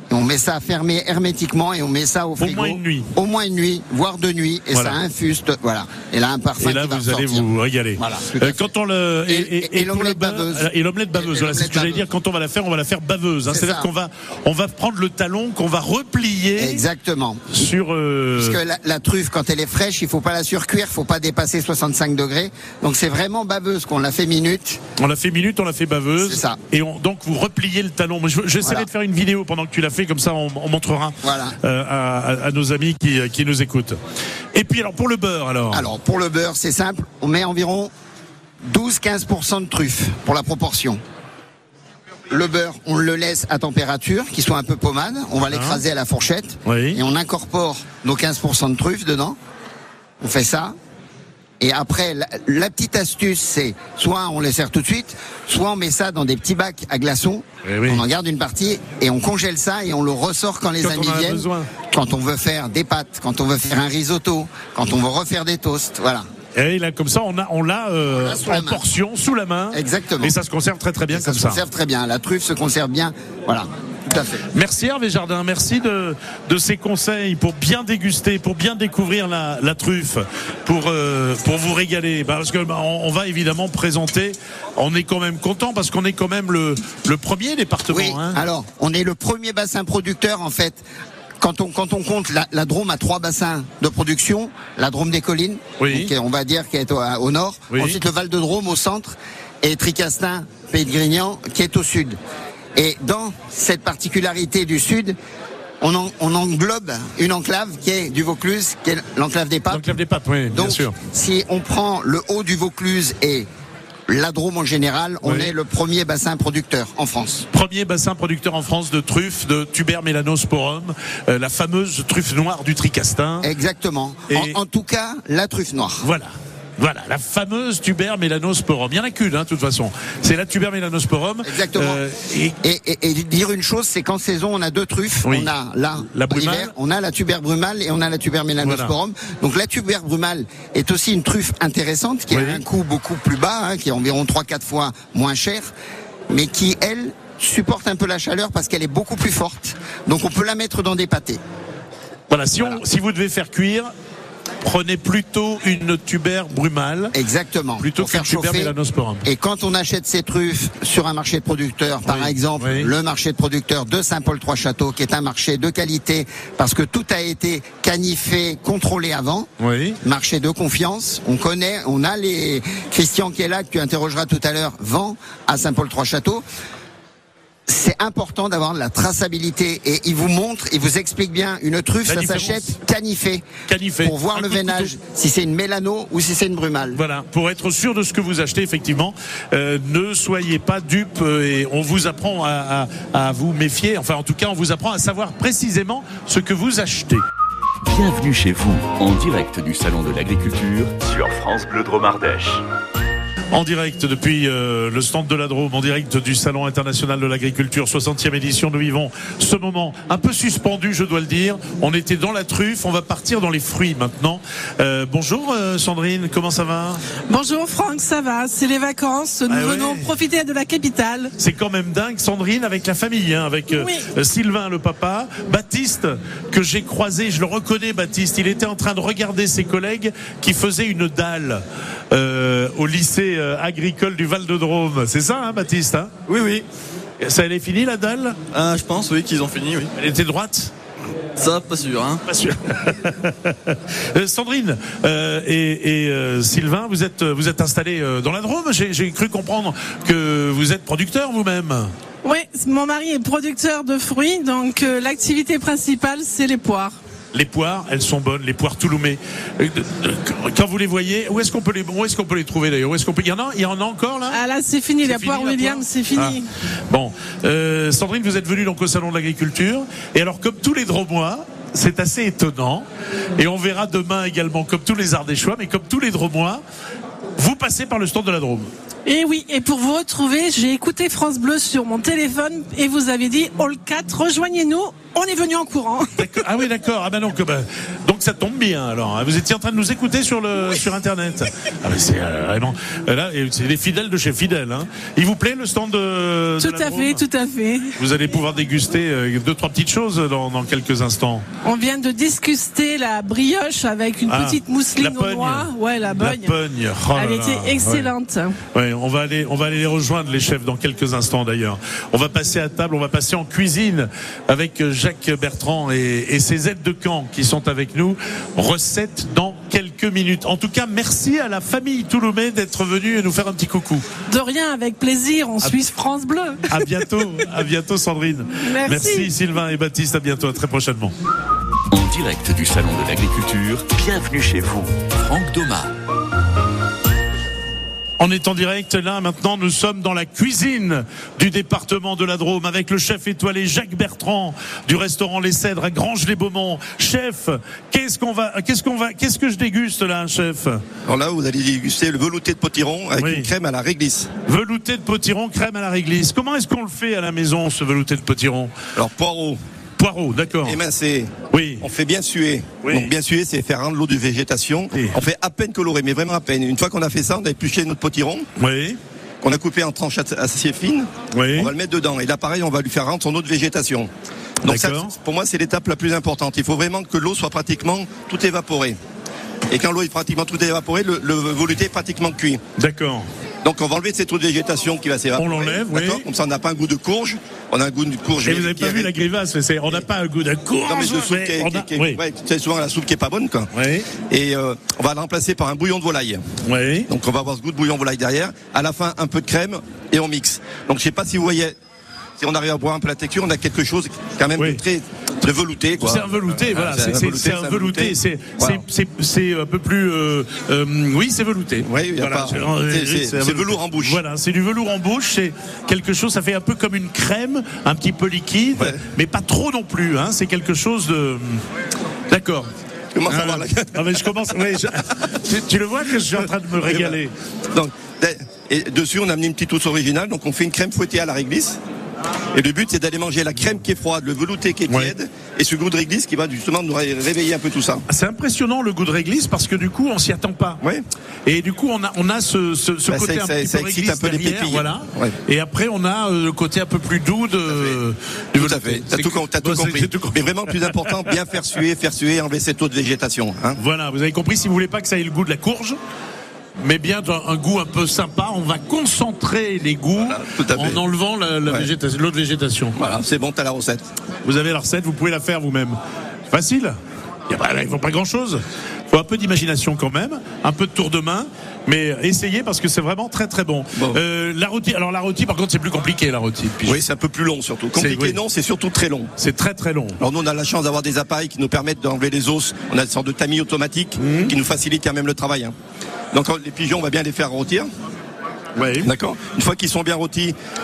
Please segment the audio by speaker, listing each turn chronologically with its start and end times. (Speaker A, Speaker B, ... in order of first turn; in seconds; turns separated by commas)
Speaker A: 0.1-8.7, Speaker B: 2.4-3.1, Speaker B: 4.7-5.0, Speaker B: 6.6-16.8, Speaker A: 9.3-12.1, Speaker A: 13.5-13.9, Speaker A: 16.6-17.7, Speaker B: 17.5-18.6, Speaker A: 18.4-24.8, Speaker B: 25.0-34.0, Speaker A: 26.2-26.6, Speaker A: 31.2-31.6, Speaker B: 34.5-35.9, Speaker A: 35.7-37.9, Speaker A: 38.6-41.0, Speaker A: 42.3-49.4, Speaker B: 45.5-45.8, Speaker B: 46.7-47.0, Speaker A: 50.2-50.8, Speaker A: 51.6-66.2, Speaker B: 57.6-58.0, Speaker B: 60.8-61.7, Speaker B: 66.5-71.6, Speaker A: 68.2-68.8, Speaker A: 69.7-70.3, Speaker A: 71.1-74.4, Speaker B: 74.5-88.4, Speaker A: 87.9-90.8, Speaker A: 91.4-102.2, Speaker B: 95.8-96.1, Speaker B: 97.7-98.0, Speaker A: 102.8-105.2, Speaker A: 105.8-109.8, Speaker B: 109.7-111.0, Speaker A: 110.5-113.5, Speaker A: 114.1-117.5, Speaker B: 115.2-115.5, Speaker B: 117.5-123.5, Speaker A: 123.4-126.1, Speaker B: 124.3-124.6, Speaker B: 126.0-132.6, Speaker A: 131.4-132.0, Speaker A: 132.6-145.7, Speaker B: 135.2-136.7, Speaker B: 138.6-138.9, Speaker B: 142.3-142.6, Speaker A: 146.3-151.4, Speaker B: 152.3-153.9, Speaker B: 154.6-157.1, Speaker A: 157.1-158.7, Speaker B: 157.8-159.2, Speaker A: 159.2-169.5, Speaker B: 162.1-162.9, Speaker B: 169.6-170.0, Speaker A: 170.0-176.4, Speaker A: 177.7-183.4, Speaker B: 182.1-182.8, Speaker B: 183.7-184.9, Speaker A: 184.0-187.0, Speaker B: 186.9-197.2, Speaker C: 197.8-202.6, Speaker B: 203.5-217.0, Speaker D: 217.3-221.3, Speaker B: 219.5-220.1, Speaker B: 221.4-236.1, Speaker D: 223.7-224.1, Speaker E: 236.3-236.7, Speaker B: 237.2-238.4, Speaker E: 238.5-239.9, Speaker B: 240.0-240.7, Speaker E: 241.4-242.2, Speaker B: 242.3-251.9, Speaker D: 252.2-257.0, Speaker B: 257.3-264.4, Speaker D: 264.3-266.5, Speaker B: 265.0-266.4, Speaker B: 266.9-272.9, Speaker B: 273.4-276.6, Speaker B: 277.4-278.7, Speaker D: 279.1-286.2, Speaker B: 286.2-297.2, Speaker D: 296.6-298.0, Speaker B: 298.0-301.4, Speaker D: 301.6-306.6, Speaker B: 304.3-308.1, Speaker D: 307.1-308.5, Speaker B: 308.8-324.1, Speaker D: 324.3-326.9, Speaker B: 326.7-331.1, Speaker D: 328.6-329.3, Speaker C: 331.9-335.9, Speaker B: 338.2-350.8, Speaker F: 351.1-354.3, Speaker B: 353.2-353.5, Speaker B: 354.5-358.7, Speaker F: 359.0-359.6, Speaker B: 360.0-360.8, Speaker F: 360.6-368.5, Speaker B: 361.5-361.9, Speaker B: 362.8-363.1, Speaker B: 368.6-369.0, Speaker F: 369.4-374.1, Speaker B: 371.3-371.7, Speaker B: 374.6-375.1, Speaker F: 374.6-379.0, Speaker F: 379.7-382.6, Speaker B: 382.8-383.3, Speaker F: 383.6-389.1, Speaker B: 385.4-386.2, Speaker B: 388.4-392.2, Speaker F: 390.9-393.7, Speaker B: 393.7-394.1, Speaker F: 394.3-396.4, Speaker B: 396.6-397.1, Speaker F: 397.1-401.8, Speaker F: 402.4-408.8, Speaker B: 404.6-404.8, Speaker B: 406.0-421.6, Speaker F: 411.8-414.2, Speaker B: 422.3-422.7, Speaker F: 423.1-424.1, Speaker B: 423.3-427.3, Speaker F: 426.9-427.2, Speaker F: 427.7-431.8, Speaker F: 432.5-438.0, Speaker B: 434.9-435.1, Speaker B: 438.1-440.8, Speaker B: 441.5-451.3, Speaker F: 443.1-445.4, Speaker F: 447.7-448.0, Speaker F: 448.6-453.8, Speaker B: 453.8-456.0, Speaker B: 456.8-463.0, Speaker F: 460.2-461.0, Speaker F: 463.0-464.1, Speaker B: 464.4-466.0, Speaker B: 466.5-467.0, Speaker B: 467.5-477.0, Speaker F: 476.9-479.3, Speaker B: 478.0-478.4, Speaker B: 479.4-480.2, Speaker F: 480.2-485.7, Speaker B: 484.2-484.5, Speaker F: 486.3-487.9, Speaker B: 488.8-489.1, Speaker F: 489.0-490.5